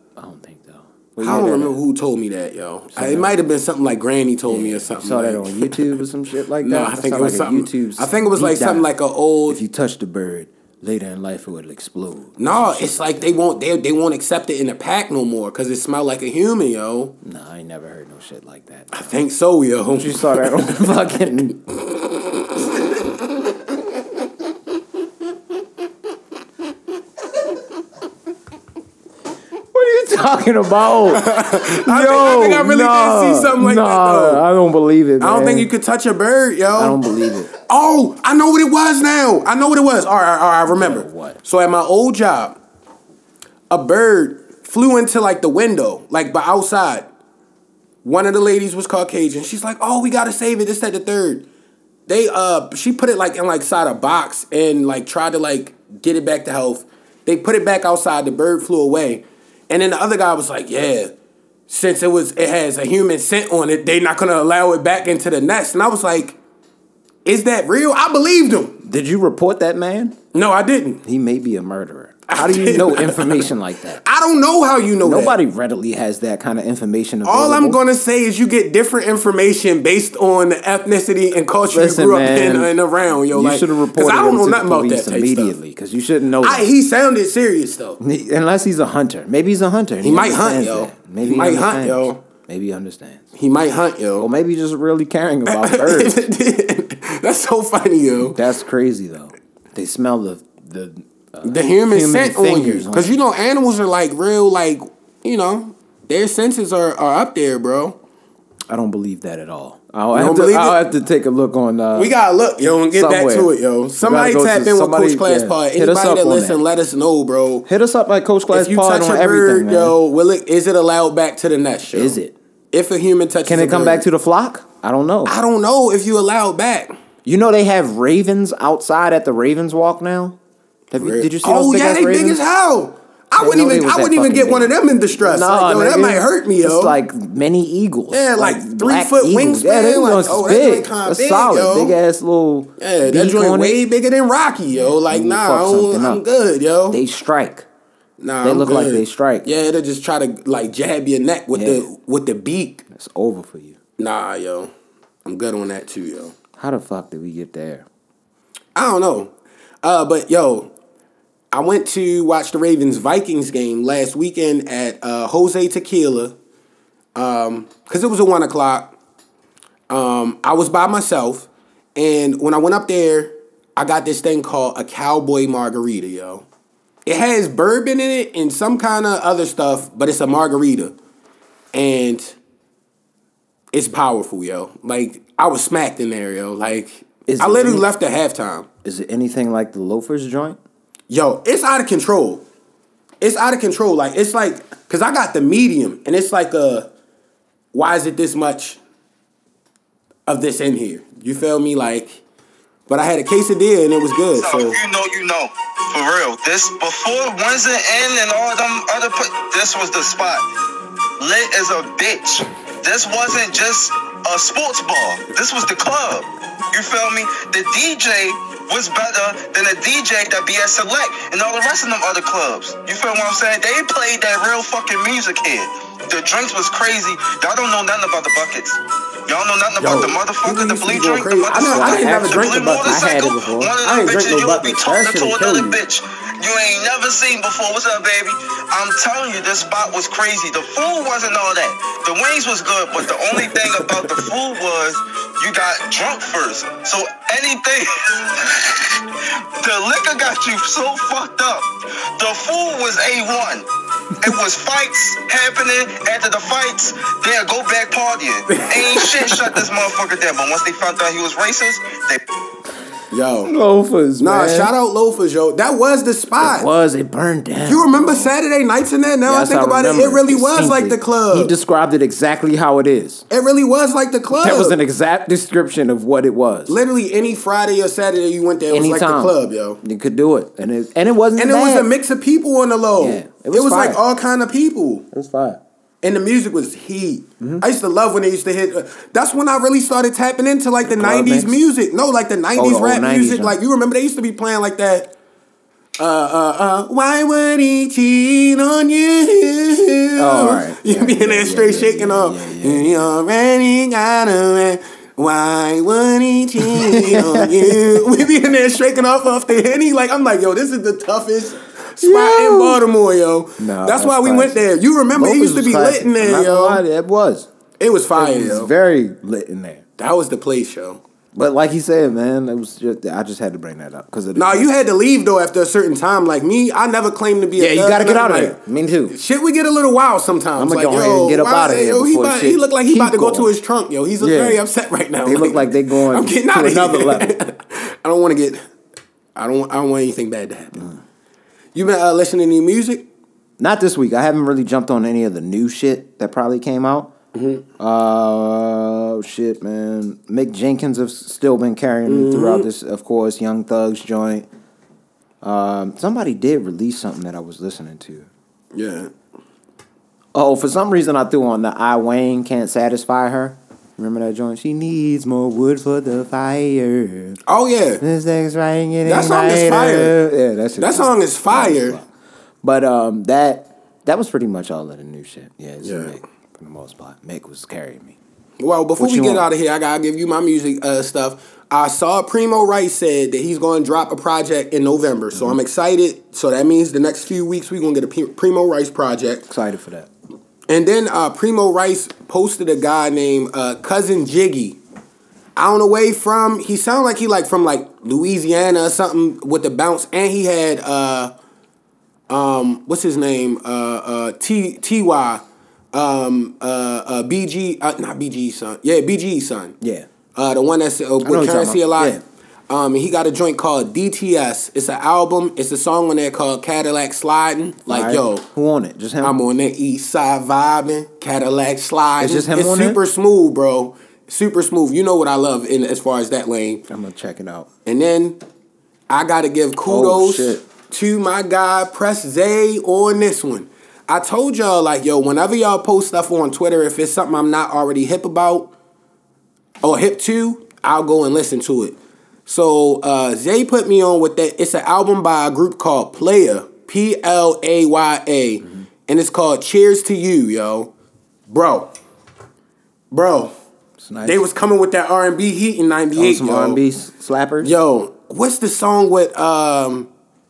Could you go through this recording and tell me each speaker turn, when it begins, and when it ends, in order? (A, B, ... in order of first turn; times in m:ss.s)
0:00.2-0:01.8 A
0:01.2-0:05.8 B
0:02.9-0:03.5 A
0:04.5-0:08.9 A
0:06.6-0:09.6 B
0:09.5-0:13.4 A
0:12.4-0:17.1 B
0:17.2-0:18.9 A
0:18.9-0:22.7 B
0:19.8-0:21.6 A
0:29.7-0:35.7 A
0:31.1-0:34.4 B
0:35.2-0:37.0 B
0:36.7-0:37.5 A
0:37.5-0:42.6 B
0:40.7-0:41.4 A
0:43.7-0:47.1 B
0:48.0-0:51.4 B
0:52.1-1:01.1 B
1:01.7-1:06.4 B
1:07.2-1:08.8 B
1:08.8-1:10.2 A
1:10.3-1:11.0 B
1:11.0-1:14.0 A
1:12.3-1:13.4 B
1:14.0-1:15.4 B
1:15.0-1:17.8 A
1:17.2-1:25.6 B
1:21.7-1:22.7 A
1:23.3-1:26.7 A
1:26.4-1:28.0 B
1:28.0-1:33.2 A
1:30.0-1:32.2 B
1:33.3-1:34.3 B
1:34.2-1:36.2 A
1:35.4-1:38.4 B
1:38.3-1:43.2 A
1:41.4-1:48.0 B
1:48.7-1:52.1 A
1:50.1-1:50.8 B
1:51.9-1:57.7 B
1:52.9-1:56.6 A
1:57.6-2:00.0 A
1:58.5-2:02.2 B
2:01.9-2:02.3 A
2:02.7-2:04.0 B
2:03.4-2:05.3 A
2:05.2-2:06.9 B
2:07.2-2:10.4 A
2:10.9-2:12.4 A
2:11.0-2:17.0 B
2:13.4-2:23.8 A
2:18.1-2:22.0 B
2:22.8-2:27.0 B
2:24.7-2:26.2 A
2:26.9-2:27.6 A
2:28.2-2:32.8 B
2:28.4-2:29.5 A
2:31.5-2:31.9 A
2:32.9-2:33.8 A
2:34.0-2:34.7 B
2:35.2-2:36.3 B
2:36.6-2:37.8 A
2:38.7-2:40.7 B
2:41.5-2:46.3 B
2:47.1-2:48.9 B
2:49.9-2:56.4 B
2:57.0-3:00.9 B
3:01.7-3:02.4 B
3:03.7-3:08.7 B
3:07.2-3:07.8 A
3:08.8-3:10.6 A
3:11.1-3:12.4 B
3:13.2-3:16.9 B
3:17.7-3:18.8 B
3:20.3-3:22.2 B
3:22.9-3:24.8 B
3:24.4-3:30.4 C
3:31.2-4:09.0 C
3:49.8-3:53.1 B
3:51.5-3:53.8 A
3:53.8-3:55.8 B
4:09.6-4:11.7 C
4:12.2-4:13.6 C
4:14.2-4:22.2 C
4:18.5-4:19.6 B
4:23.1-4:23.5 B
4:23.4-4:24.7 A
4:24.2-4:26.7 B
4:26.4-4:28.4 A
4:27.6-4:31.5 B
4:29.2-4:33.2 A
4:33.3-4:34.8 B
4:34.3-4:36.8 A
4:36.7-4:39.8 B
4:38.7-4:41.9 A
4:41.4-4:45.0 B
4:43.0-4:44.0 A
4:45.1-4:45.6 A
4:46.0-4:55.1 B
4:50.8-4:51.6 A
4:52.5-4:53.6 A
4:56.0-5:16.8 B
5:00.2-5:03.1 A
5:06.6-5:08.0 A
5:12.0-5:12.8 A
5:13.6-5:17.5 A
5:17.8-5:18.7 B
5:18.1-5:19.8 A
5:20.0-5:21.0 B
5:21.3-5:24.7 A
5:24.3-5:28.6 B
5:27.6-5:29.2 A
5:29.1-5:38.6 B
5:30.6-5:33.5 A
5:34.2-5:34.6 A
5:35.2-5:37.3 A
5:39.3-5:40.9 B
5:41.7-5:43.0 B
5:43.6-5:47.1 A
5:47.3-5:47.6 B
5:47.8-5:54.5 A
5:52.1-5:52.7 B
5:55.4-5:58.3 A
5:58.7-5:59.1 B
6:00.3-6:07.4 A
6:07.4-6:08.0 B
6:08.0-6:12.0 A
6:09.0-6:10.2 B
6:10.8-6:12.0 B
6:12.6-6:18.2 A
6:15.8-6:16.2 B
6:18.6-6:29.5 B
6:19.0-6:19.4 A
6:29.5-6:30.1 A
6:30.7-6:34.8 B
6:35.6-6:41.3 B
6:42.3-6:49.8 B
6:49.8-6:50.1 A
6:50.3-6:58.4 B
6:51.2-6:52.2 A
6:57.9-6:59.4 A
6:59.2-7:06.8 B
7:02.2-7:03.0 A
7:06.9-7:07.7 A
7:07.8-7:08.4 B
7:09.1-7:18.7 B
7:09.9-7:10.6 A
7:19.8-7:30.9 B
7:31.5-7:31.9 B
7:33.1-7:33.5 B
7:34.0-7:34.4 A
7:34.2-7:36.8 B
7:36.2-7:37.7 A
7:37.6-7:40.1 B